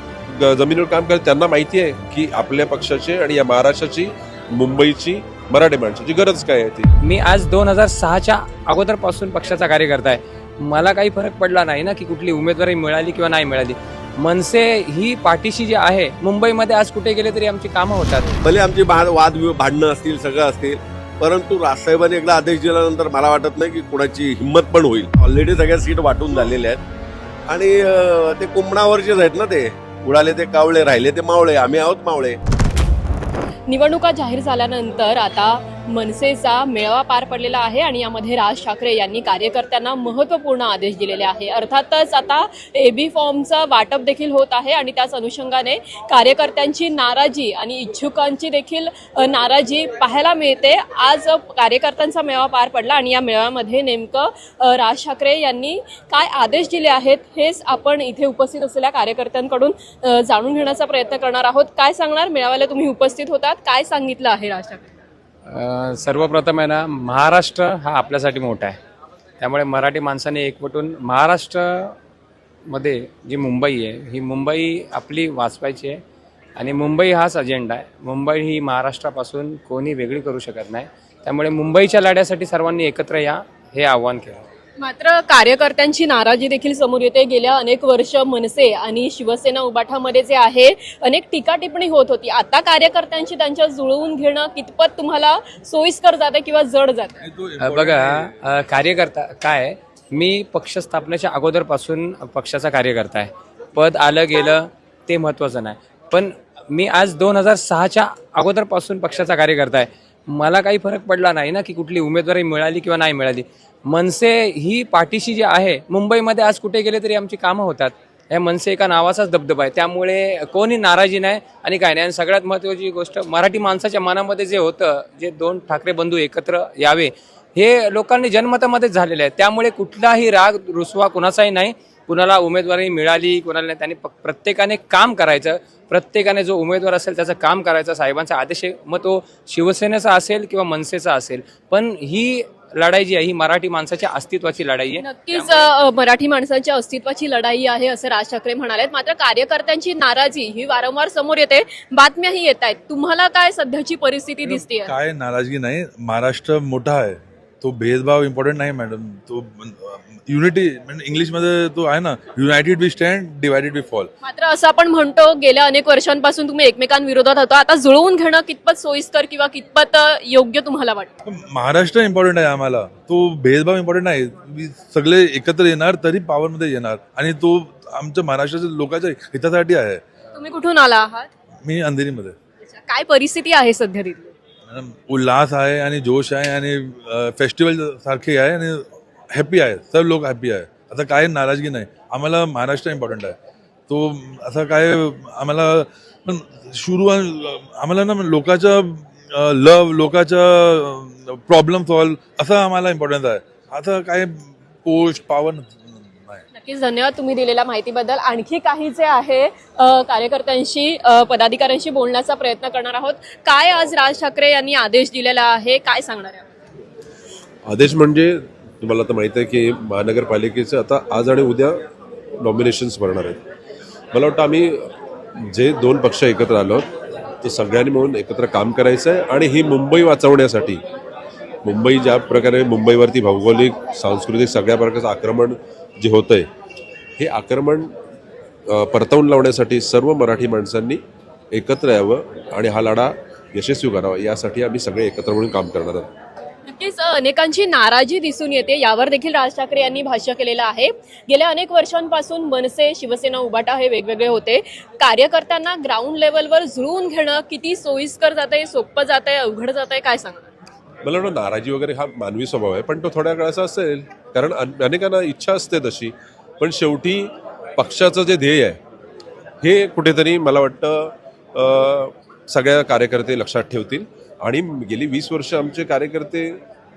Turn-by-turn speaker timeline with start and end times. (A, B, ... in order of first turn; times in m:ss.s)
0:00.3-0:06.9 A
0:07.0-0:18.4 B
0:18.4-0:26.8 C
0:27.5-0:32.4 C
0:33.7-1:05.0 D
1:05.5-1:08.8 B
1:09.4-1:12.0 B
1:12.7-1:16.0 B
1:16.6-1:24.4 B
1:24.8-1:37.2 D
1:37.2-1:38.3 E
1:37.6-2:25.7 B
2:25.0-2:34.9 D
2:34.4-2:44.1 E
2:44.2-2:51.1 D
2:51.3-3:00.0 E
3:00.3-3:01.3 D
3:01.6-3:02.4 E
3:02.6-3:04.3 D
3:04.7-3:13.4 E
3:13.9-3:26.4 E
3:26.5-3:36.4 D
3:37.7-3:41.8 A
3:42.4-3:43.4 A
3:44.1-3:46.9 A
3:47.4-3:50.8 A
3:51.6-3:56.5 A
3:57.2-3:57.9 A
3:58.7-4:06.1 A
4:06.7-4:20.5 D
4:21.0-4:28.8 A
4:29.6-4:36.6 A